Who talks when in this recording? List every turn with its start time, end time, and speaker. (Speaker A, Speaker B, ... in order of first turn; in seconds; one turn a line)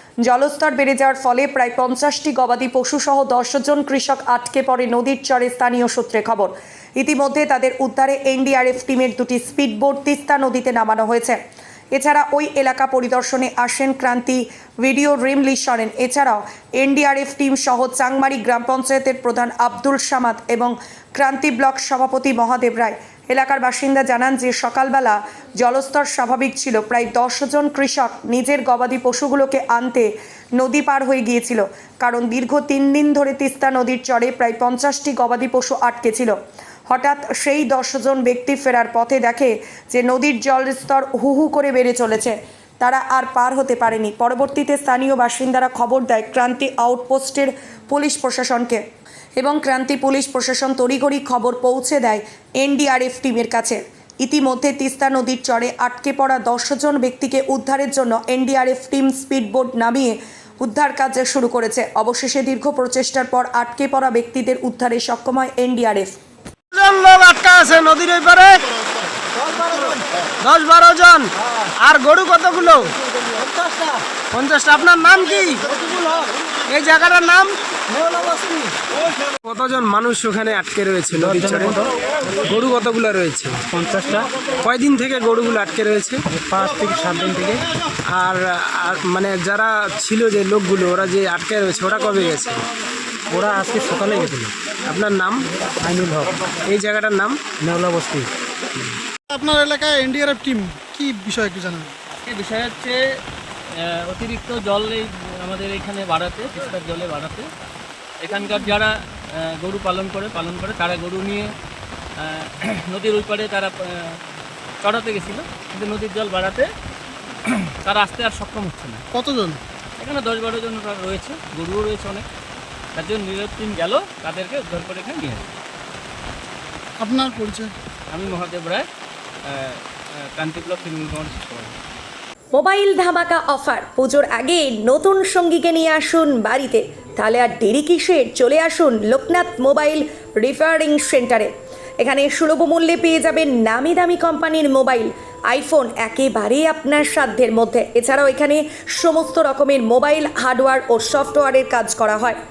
Speaker A: 0.2-11.4
Speaker A: 11.9-36.4
Speaker A: 36.9-48.8
Speaker A: 49.4-66.2
Speaker B: 66.7-68.7
Speaker B: 69.6-69.9
Speaker B: 70.4-71.3
Speaker B: 71.8-72.9
Speaker B: 74.3-75.7
Speaker B: 76.7-77.5
Speaker B: 79.5-81.8
Speaker C: 81.2-81.9
Speaker B: 82.4-83.6
Speaker C: 83.7-84.3
Speaker B: 84.6-86.2
Speaker C: 86.3-87.6
Speaker B: 88.1-92.6
Speaker C: 93.3-94.5
Speaker B: 94.9-95.5
Speaker C: 95.8-96.5
Speaker B: 96.7-97.4
Speaker C: 97.6-98.3
Speaker D: 99.3-101.9
Speaker E: 102.2-103.0
Speaker E: 103.7-107.5
Speaker E: 108.2-111.5
Speaker E: 112.2-114.2
Speaker E: 114.8-116.7
Speaker E: 117.5-119.0
Speaker D: 119.1-119.6
Speaker E: 120.0-122.2
Speaker E: 123.0-125.5
Speaker D: 127.0-127.8
Speaker E: 128.1-128.9
Speaker E: 129.5-131.8
Speaker A: 132.6-152.4